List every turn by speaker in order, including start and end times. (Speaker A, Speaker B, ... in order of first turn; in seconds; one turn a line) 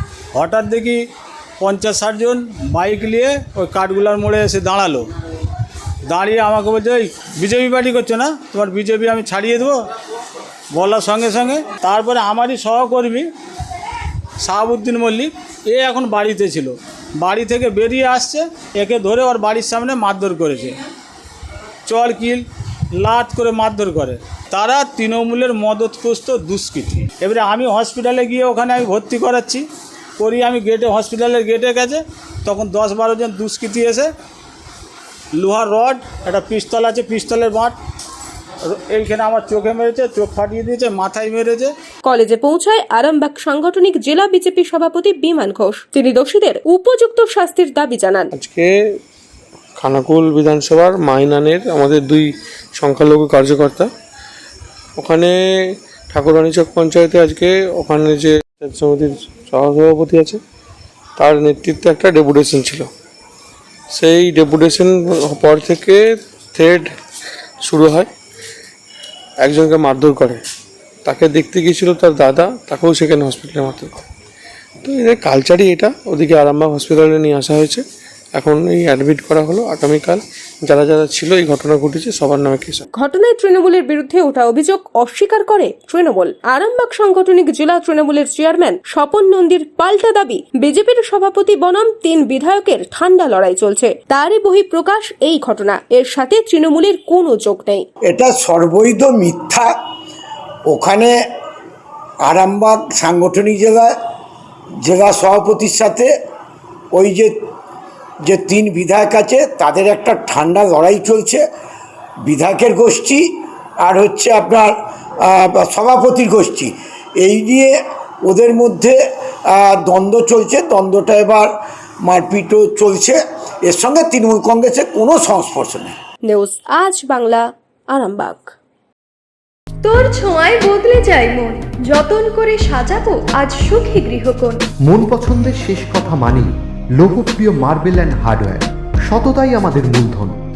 Speaker A: 0.3-1.1
Speaker A: 1.6-5.1
Speaker A: 6.1-9.8
Speaker A: 10.7-13.3
Speaker A: 14.4-20.8
Speaker A: 21.9-29.7
Speaker A: 30.2-34.1
Speaker A: 35.4-37.8
Speaker A: 38.6-41.7
Speaker B: 42.0-48.3
Speaker C: 48.3-48.7
Speaker C: 49.8-53.9
Speaker C: 55.0-60.4
Speaker C: 61.2-62.9
Speaker C: 63.9-66.0
Speaker C: 66.5-66.9
Speaker C: 67.6-68.1
Speaker C: 69.4-70.4
Speaker C: 71.0-74.0
Speaker C: 74.8-77.8
Speaker C: 78.3-82.8
Speaker B: 82.9-97.9
Speaker D: 98.1-99.7
Speaker D: 100.7-101.1
Speaker D: 102.2-103.9
Speaker D: 104.8-106.1
Speaker D: 106.9-107.3
Speaker D: 108.2-111.4
Speaker D: 112.2-113.2
Speaker D: 113.8-117.7
Speaker D: 118.2-119.0
Speaker D: 119.5-121.5
Speaker D: 122.0-126.0
Speaker B: 126.3-128.5
Speaker E: 129.8-134.6
Speaker F: 134.9-140.4